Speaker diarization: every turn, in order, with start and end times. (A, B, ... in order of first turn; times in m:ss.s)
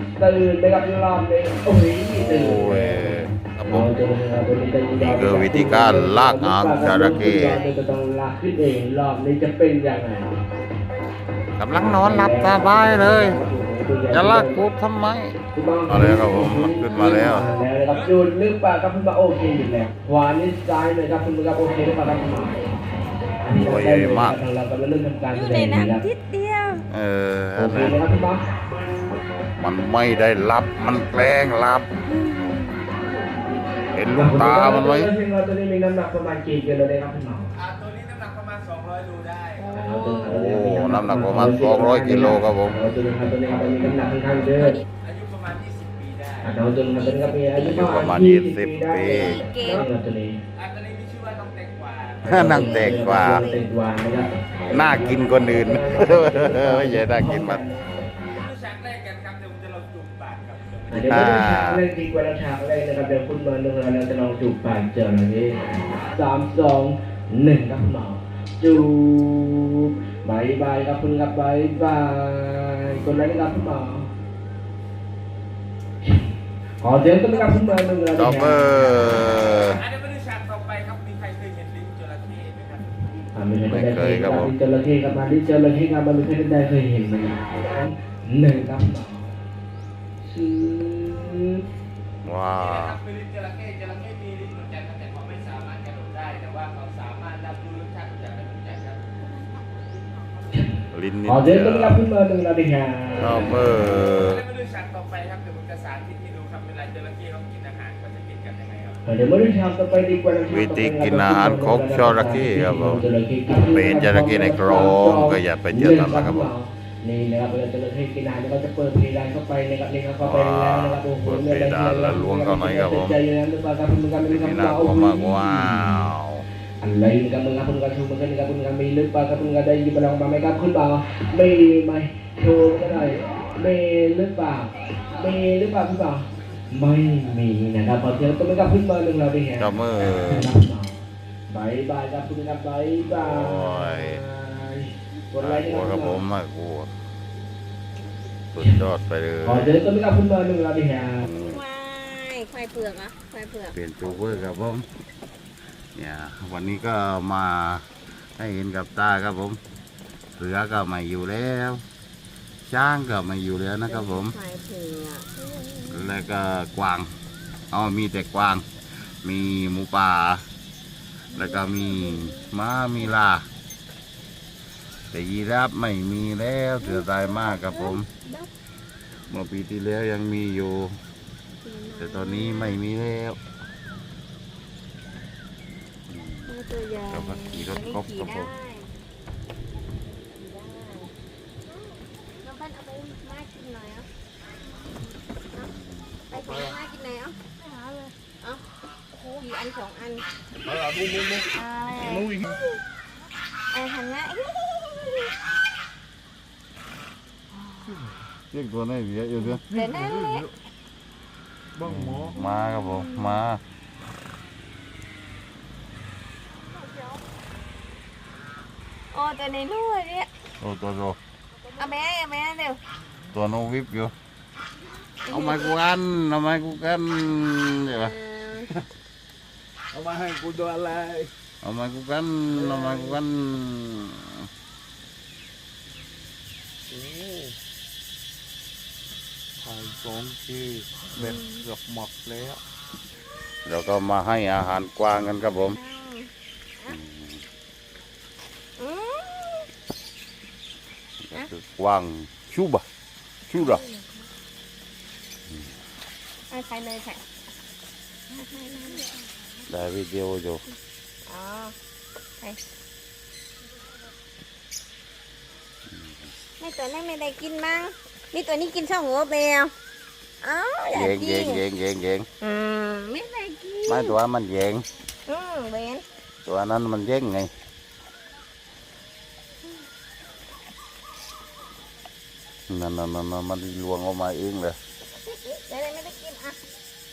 0:00.2-0:10.4 A
0:02.1-0:03.9 B
0:05.0-0:07.6 B
0:07.0-0:07.6 C
0:11.6-0:13.4 B
0:11.7-0:14.7 A
0:14.1-0:17.5 B
0:15.5-0:22.7 A
0:16.9-0:17.3 C
0:23.4-0:26.0 A
0:23.6-0:24.4 B
0:25.3-0:26.8 C
0:26.9-0:28.0 B
0:27.6-0:28.4 A
0:29.6-0:31.9 B
0:32.1-0:34.0 C
0:33.9-0:35.1 B
0:34.1-0:37.5 A
0:37.6-0:39.6 D
0:39.6-0:40.2 C
0:39.7-0:44.8 A
0:40.2-0:42.8 B
0:44.6-0:44.9 C
0:45.0-0:46.5 D
0:46.4-0:50.4 A
0:47.0-0:48.0 C
0:47.6-0:49.4 B
0:49.0-0:49.9 C
0:50.6-0:52.5 D
0:52.2-0:58.1 A
0:52.3-0:53.5 B
0:52.5-0:53.7 C
0:54.7-0:57.6 B
0:58.3-1:01.0 D
1:00.9-1:14.1 A
1:00.9-1:01.8 B
1:16.8-1:19.4 A
1:18.2-1:19.8 B
1:19.4-1:23.0 D
1:23.3-1:29.3 A
1:23.7-1:24.5 B
1:30.2-1:31.6 A
1:32.2-1:33.0 B
1:32.7-1:39.2 D
1:40.5-1:44.0 A
1:40.9-1:42.0 B
1:43.2-1:44.4 B
1:44.3-1:49.0 D
1:49.1-2:06.1 A
1:50.5-1:53.0 B
1:53.6-1:56.5 B
2:00.2-2:03.2 B
2:04.2-2:06.5 B
2:06.8-2:20.9 A
2:19.6-2:20.5 B
2:21.5-2:26.2 A
2:23.0-2:24.2 B
2:25.4-2:26.9 B
2:28.5-2:29.8 B
2:29.4-2:31.3 A
2:31.2-2:31.6 B
2:31.4-2:33.8 C
2:33.7-2:34.9 B
2:36.0-2:37.8 B
2:38.4-2:39.6 B
2:40.4-2:41.8 B
2:42.6-2:44.4 B
2:43.9-2:46.1 C
2:45.9-2:47.1 B
2:47.7-2:48.6 B
2:49.2-2:50.4 B
2:51.3-2:52.6 C
2:51.3-2:53.4 B
2:55.1-2:58.1 B
2:56.8-2:58.5 C
2:59.3-3:01.0 B
3:01.6-3:02.8 C
3:02.0-3:03.4 B
3:06.1-3:06.5 B
3:06.5-3:08.9 C
3:07.1-3:08.5 B
3:10.4-3:11.1 C
3:12.4-3:14.1 C
3:15.6-3:16.2 B
3:16.3-3:17.4 C
3:18.1-3:18.6 C
3:19.3-3:20.3 C
3:20.7-3:21.4 E
3:21.5-3:22.8 C
3:23.7-3:25.3 C
3:28.5-3:29.7 B
3:29.7-3:30.5 C
3:31.8-3:33.6 B
3:32.4-3:33.4 C
3:39.1-3:40.3 C
3:40.6-3:41.2 B
3:41.8-3:42.8 C
3:43.3-3:44.1 B
3:45.3-3:45.8 C
3:45.3-3:48.1 B
3:47.9-3:48.7 C
3:50.0-3:51.3 E
3:51.6-3:54.5 B
3:56.9-3:57.5 E
3:59.6-4:00.9 E
4:01.2-4:01.7 C
4:01.7-4:02.6 E
4:03.7-4:05.8 B
4:05.4-4:07.0 C
4:06.9-4:07.4 B
4:08.8-4:09.7 C
4:11.2-4:12.8 B
4:13.5-4:13.8 B
4:13.6-4:14.0 C
4:16.5-4:17.2 C
4:18.3-4:19.1 C
4:19.7-4:20.6 B
4:21.3-4:21.7 C
4:26.6-4:29.7 C
4:30.4-4:31.6 C
4:30.9-4:32.3 B
4:32.4-4:34.2 C
4:33.9-4:34.8 B
4:35.3-4:36.0 C
4:36.4-4:37.5 B
4:42.7-4:44.8 B
4:45.2-4:46.6 C